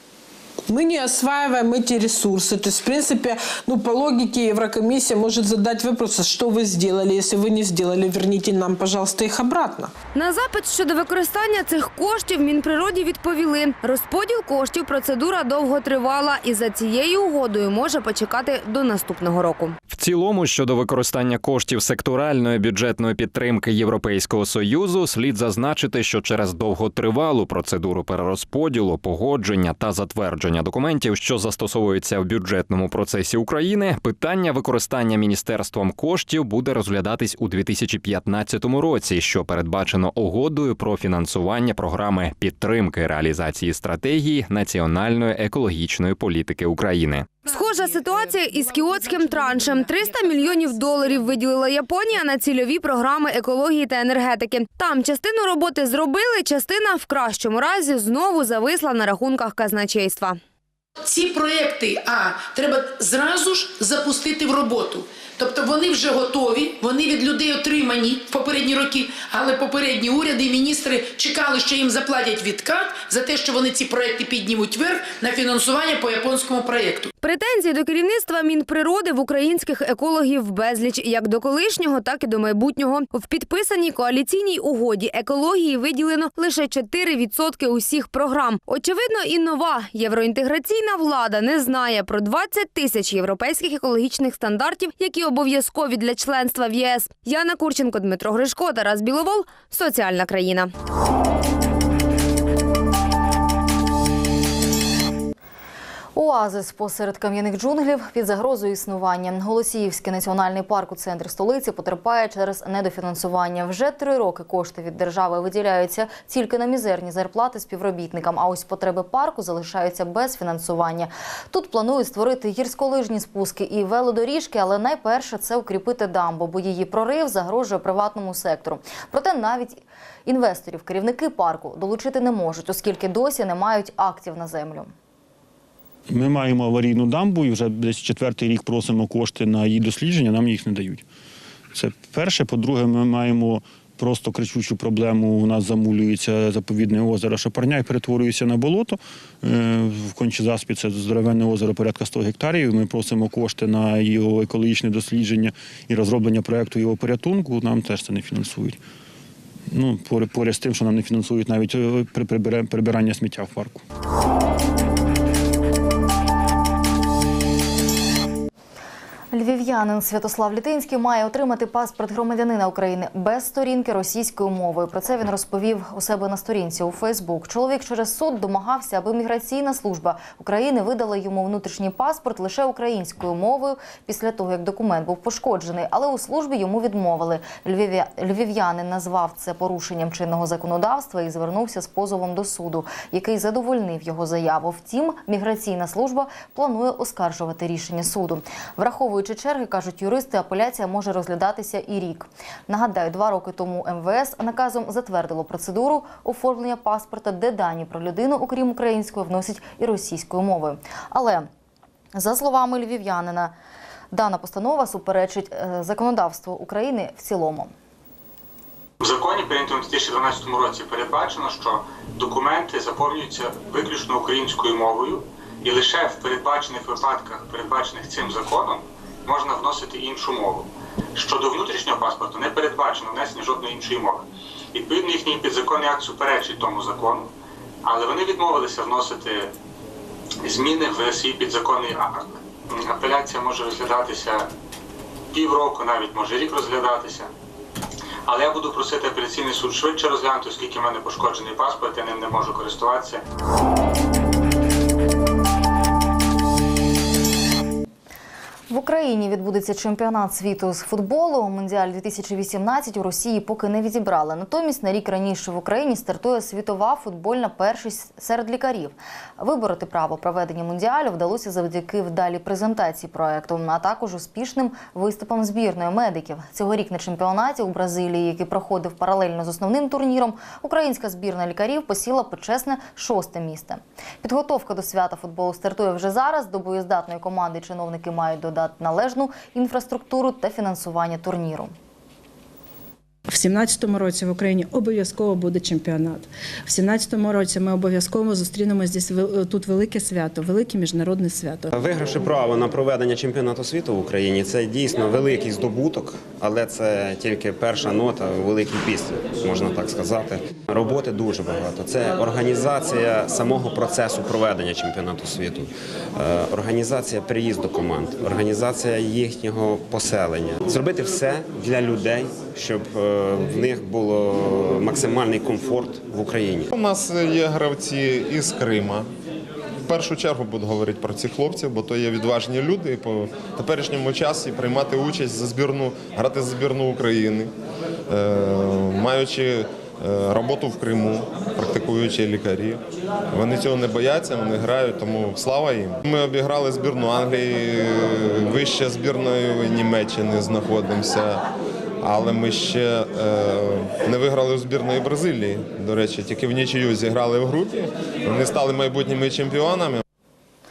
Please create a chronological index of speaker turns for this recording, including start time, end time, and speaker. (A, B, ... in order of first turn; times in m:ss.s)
0:00.7-0:09.9 A
0:10.1-0:19.8 B
0:19.9-0:47.4 C
0:47.4-1:00.4 B
1:01.0-1:17.1 D
1:17.2-1:40.7 B
1:46.2-2:14.9 E
2:16.1-2:21.0 F
2:21.7-2:38.8 F
2:39.7-2:43.8 F
2:49.3-3:31.5 E
3:32.2-3:33.5 E
3:34.1-3:37.7 E
3:39.0-3:57.3 G
3:57.8-3:59.5 G
4:00.4-4:04.5 G
4:05.3-4:07.3 G
4:08.3-4:13.2 G
4:18.7-4:51.7 E
4:53.3-5:01.7 H
5:01.7-5:26.7 I
5:26.7-5:29.1 J
5:29.9-5:37.5 J
5:38.1-5:51.4 J
5:52.0-6:00.0 J